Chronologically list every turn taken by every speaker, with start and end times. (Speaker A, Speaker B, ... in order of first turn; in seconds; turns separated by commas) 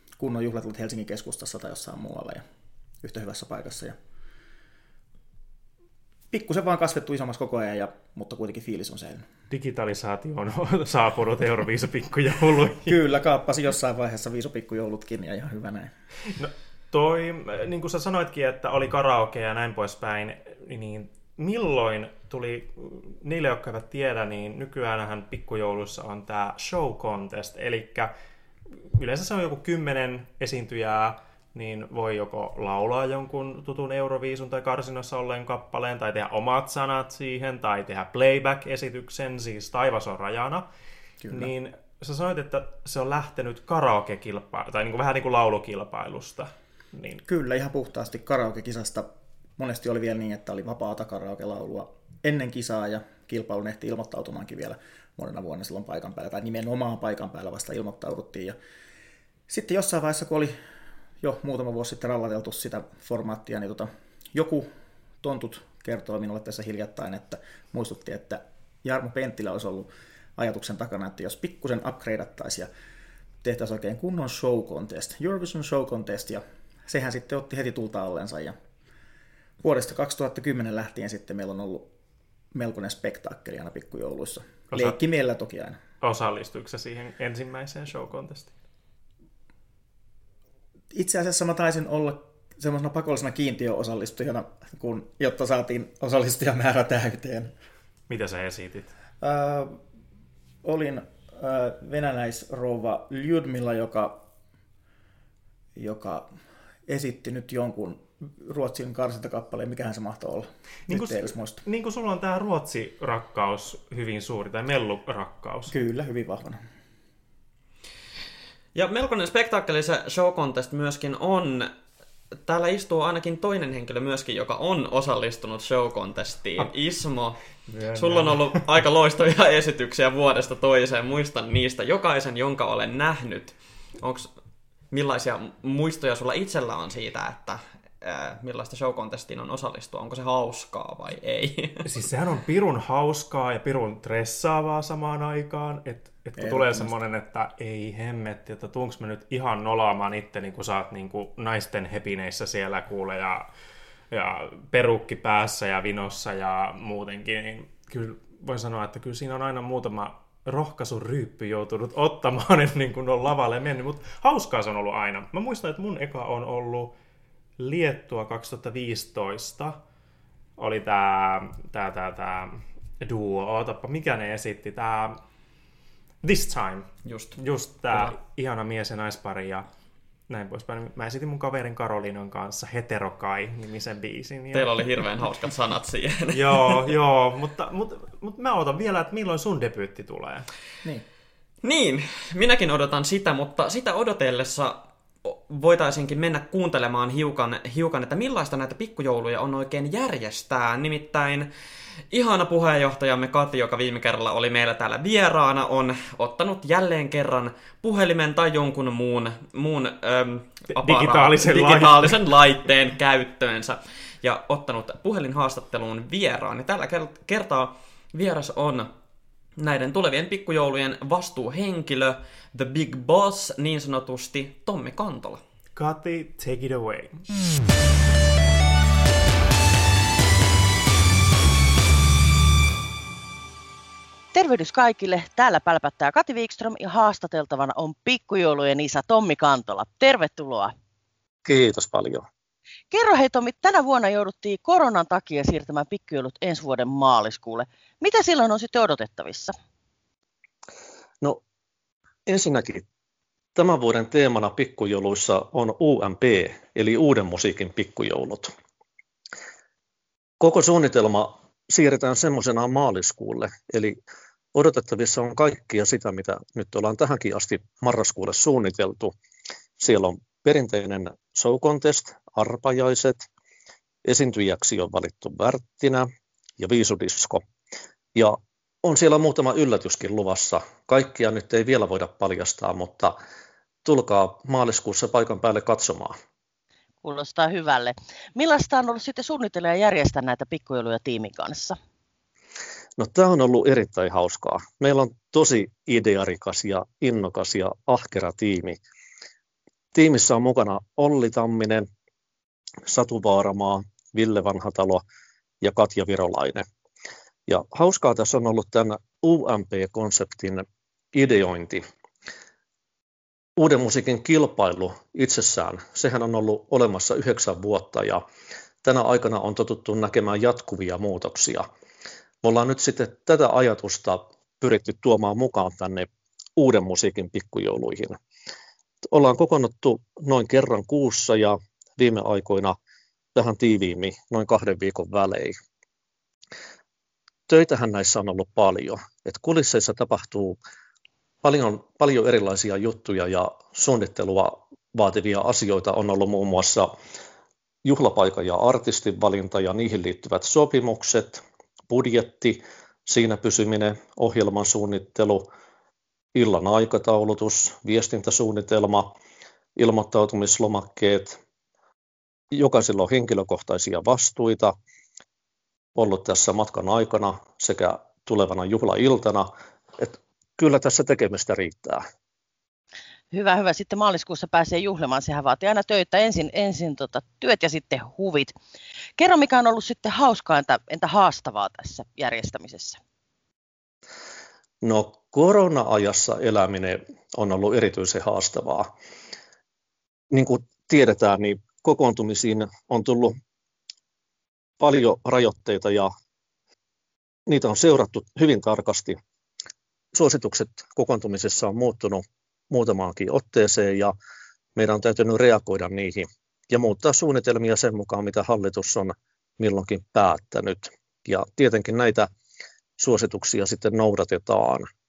Speaker A: 0.2-2.4, Speaker A: 3.0-4.0, Speaker A: 6.3-9.3, Speaker B: 9.5-12.9, Speaker A: 12.8-15.9, Speaker B: 16.4-28.1, Speaker B: 28.8-40.6, Speaker A: 41.2-41.5, Speaker B: 41.3-47.2, Speaker A: 47.2-58.5, Speaker A: 59.5-60.5, Speaker A: 61.2-64.7, Speaker A: 65.2-72.7, Speaker A: 73.4-78.5, Speaker A: 79.6-81.9, Speaker A: 82.5-85.8, Speaker B: 86.0-88.5, Speaker A: 90.9-97.5, Speaker B: 98.1-98.9, Speaker A: 99.2-99.8, Speaker A: 100.6-104.2, Speaker A: 105.8-106.3, Speaker A: 106.9-111.6, Speaker B: 110.9-115.7, Speaker A: 115.7-116.6, Speaker C: 118.7-121.7, Speaker C: 122.5-127.4, Speaker B: 127.7-128.6, Speaker C: 127.9-134.3, Speaker C: 134.9-141.9, Speaker B: 141.8-153.4, Speaker A: 146.4-146.9, Speaker B: 154.1-166.9, Speaker B: 167.6-169.8, Speaker B: 170.6-175.2, Speaker B: 176.2-179.7, Speaker C: 177.1-177.4, Speaker B: 180.3-184.8, Speaker C: 184.5-186.9, Speaker B: 186.3-190.5, Speaker C: 191.6-201.5, Speaker C: 202.1-218.9, Speaker B: 210.7-212.2, Speaker C: 219.6-225.4, Speaker B: 225.8-227.2, Speaker D: 234.3-240.7, Speaker E: 241.4-242.2, Speaker D: 242.9-249.5, Speaker E: 252.3-252.8, Speaker E: 253.5-258.5, Speaker E: 260.4-264.0, Speaker E: 264.5-269.1, Speaker E: 269.8-273.2, Speaker E: 274.0-276.1, Speaker E: 276.6-277.4, Speaker E: 278.1-283.1, Speaker E: 283.8-286.1, Speaker D: 287.0-291.8, Speaker E: 293.0-298.8, Speaker E: 299.9-301.9, Speaker E: 302.9-305.0, Speaker E: 305.6-306.6, Speaker E: 307.5-311.8, Speaker E: 313.6-318.2, Speaker E: 318.8-321.6, Speaker E: 322.4-328.2, Speaker E: 329.1-332.7, Speaker E: 333.3-335.5, Speaker E: 337.5-340.6, Speaker E: 341.4-346.9, Speaker E: 347.8-355.4, Speaker E: 356.3-359.1, Speaker E: 359.8-361.4, Speaker E: 362.5-364.7, Speaker E: 365.9-372.0, Speaker D: 373.3-378.5, Speaker D: 379.2-383.0, Speaker E: 384.8-388.9, Speaker E: 390.3-393.4, Speaker E: 394.8-396.1, Speaker E: 397.5-399.2, Speaker E: 400.1-404.1, Speaker E: 404.8-412.3, Speaker E: 413.0-414.9